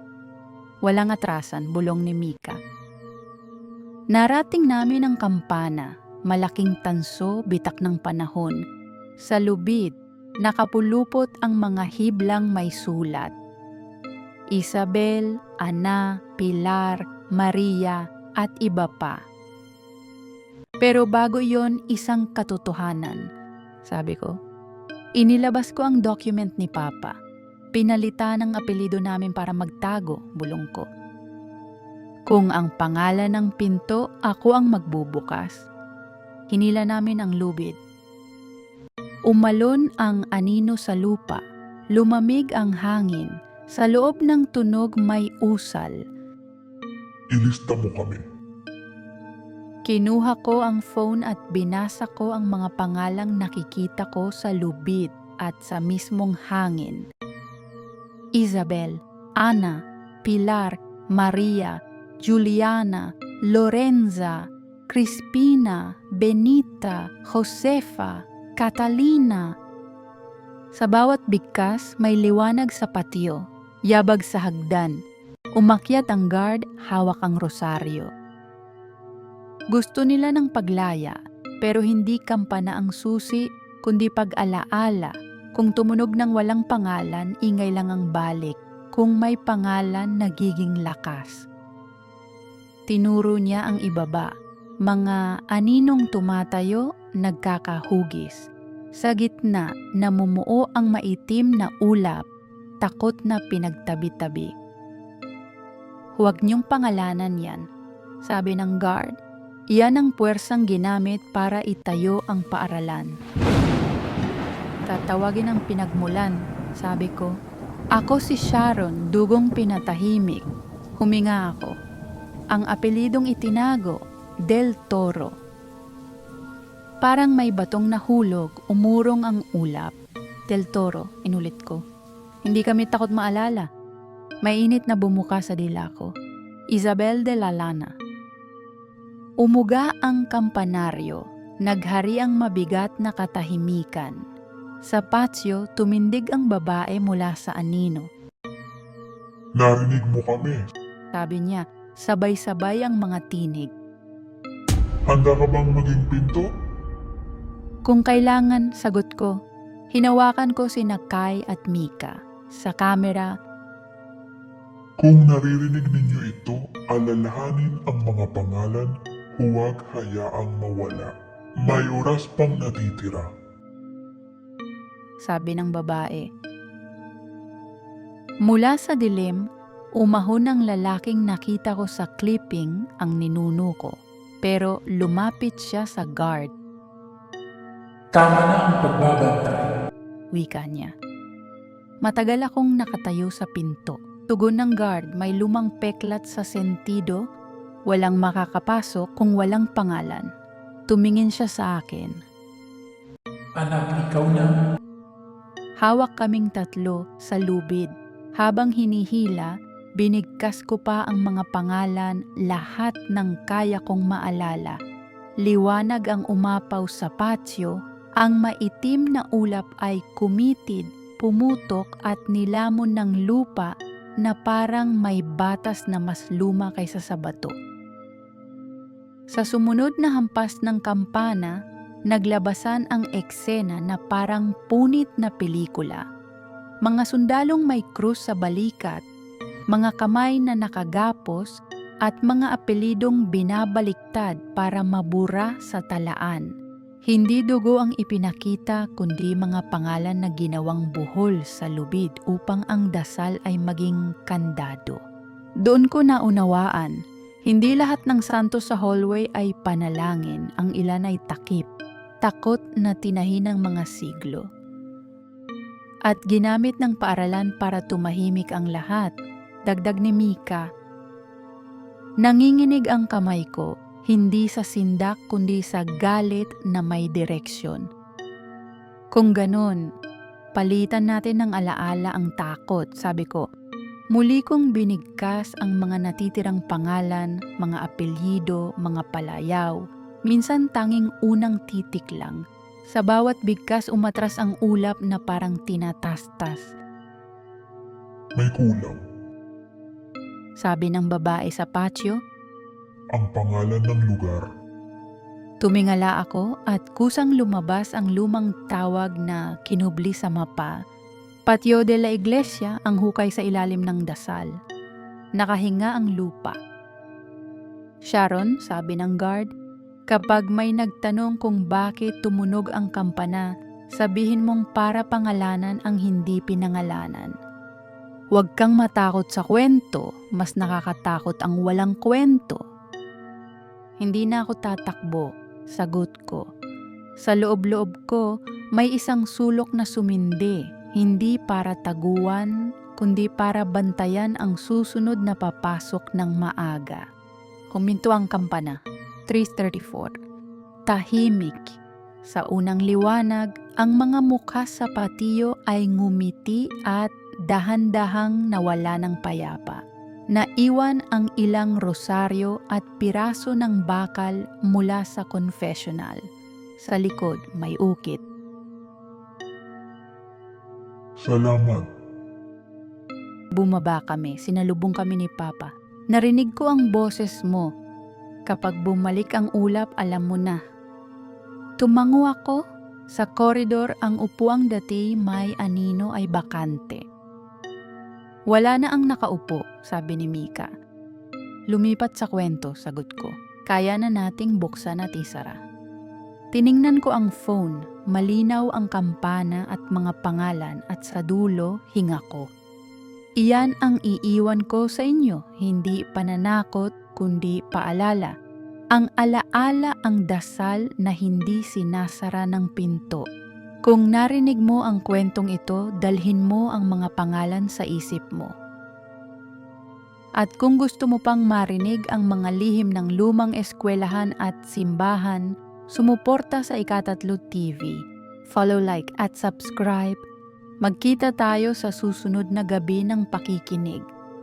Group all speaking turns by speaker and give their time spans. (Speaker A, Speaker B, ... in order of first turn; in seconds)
Speaker A: 0.9-2.6, 4.1-8.6, 9.3-9.9, 10.4-13.3, 14.6-19.2, 20.8-23.2, 23.9-24.3, 25.2-27.1, 27.8-30.9, 32.3-35.6, 36.5-37.8, 39.3-41.4, 42.0-45.9, 49.9-57.0, 58.4-64.4, 64.9-69.5, 70.8-73.4, 73.9-75.0, 75.6-78.1, 79.7-91.4, 92.9-94.3, 94.9-98.5, 99.0-102.2, 102.8-104.5, 106.2-107.6, 108.3-109.1, 109.8-113.1, 114.9-117.3, 118.0-120.5, 121.0-121.7, 122.5-124.0, 124.5-125.3, 127.0-129.9, 130.5-131.8, 132.5-133.7, 134.4-136.1, 136.8-137.9, 139.4-144.2, 144.9-148.1, 151.1-153.7, 157.9-159.3, 159.9-163.3, 175.3-176.2, 178.5-179.4, 180.0-183.9, 184.4-186.5, 190.4-190.9, 192.1-197.2, 197.9-200.2, 200.9-202.1, 205.8-207.9, 208.4-214.8, 215.5-223.7, 224.2-227.5, 229.3-231.5, 232.1-236.0, 236.9-239.0, 239.7-241.5, 242.1-246.5, 247.1-255.0, 255.7-256.9, 257.5-261.7, 262.2-264.4, 266.1-269.1, 269.7-270.6, 272.2-277.9, 279.2-279.8, 280.6-283.4, 284.1-292.4, 292.9-296.7, 300.6-302.2, 305.6-310.7, 311.5-314.5, 315.4-316.6, 318.1-319.5, 320.1-323.5, 324.0-327.3, 328.4-332.6, 334.0-336.4, 337.2-338.2, 338.8-347.0, 347.8-350.1, 350.9-359.8, 360.4-366.2, 366.9-368.2, 373.6-377.7, 378.5-380.6, 381.8-382.6, 383.2-387.0, 388.5-390.7, 391.7-395.6, 396.6-402.4, 403.4-408.3, 408.9-413.2, 413.9-418.5, 420.4-428.0, 428.6-430.2, 430.8-434.0
Speaker B: 47.4-48.2, 149.6-150.6, 155.1-156.4, 165.0-171.1, 171.6-173.2, 298.4-299.0, 303.1-304.4, 371.2-371.9
Speaker C: 188.1-189.7, 203.6-204.5